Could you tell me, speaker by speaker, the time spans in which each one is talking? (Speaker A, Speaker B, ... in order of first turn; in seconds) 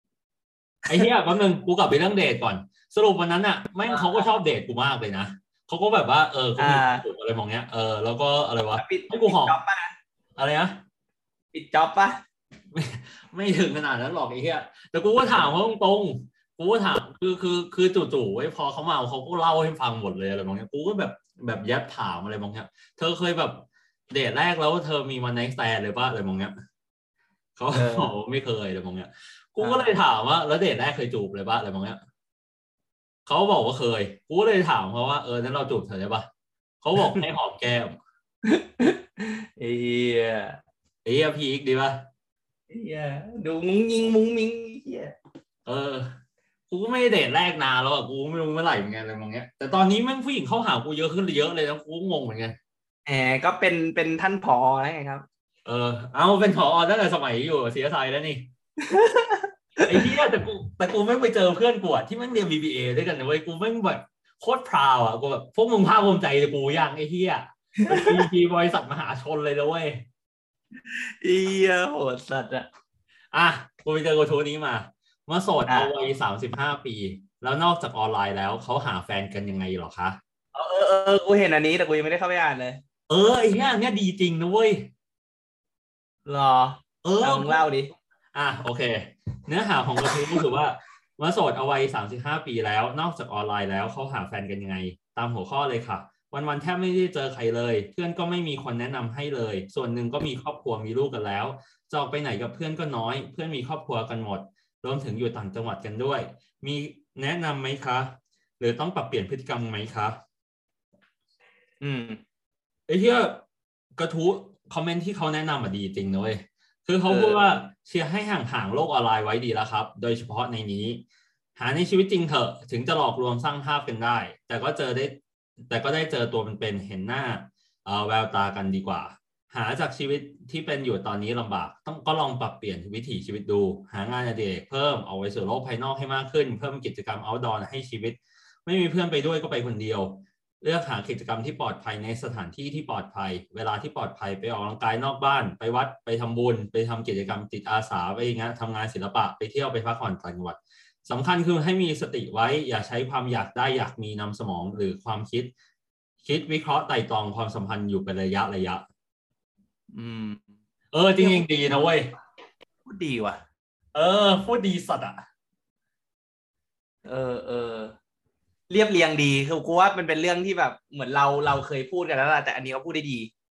Speaker A: 0.9-9.6, 10.4-10.8, 12.7-26.5, 27.6-32.0, 33.3-36.3, 36.8-38.0, 41.0-42.1, 45.7-46.2, 46.7-52.6, 55.6-58.5, 59.8-70.0, 73.3-80.2, 83.1-84.9, 87.0-87.6, 88.3-110.2, 112.9-113.4, 114.0-121.0, 121.6-155.5, 156.2-158.8, 160.9-162.1, 163.9-165.2
Speaker B: 3.9-4.3, 6.6-7.0, 8.8-9.9, 11.5-12.2, 27.7-28.1, 29.6-29.9, 38.5-40.6, 42.7-45.1, 53.1-55.2, 58.8-60.1, 67.8-68.2, 70.9-72.7, 80.5-82.8, 86.3-87.9, 111.8-112.2, 117.1-117.4, 159.9-160.4, 161.2-161.4, 162.8-163.4, 167.1-167.9, 168.7-173.3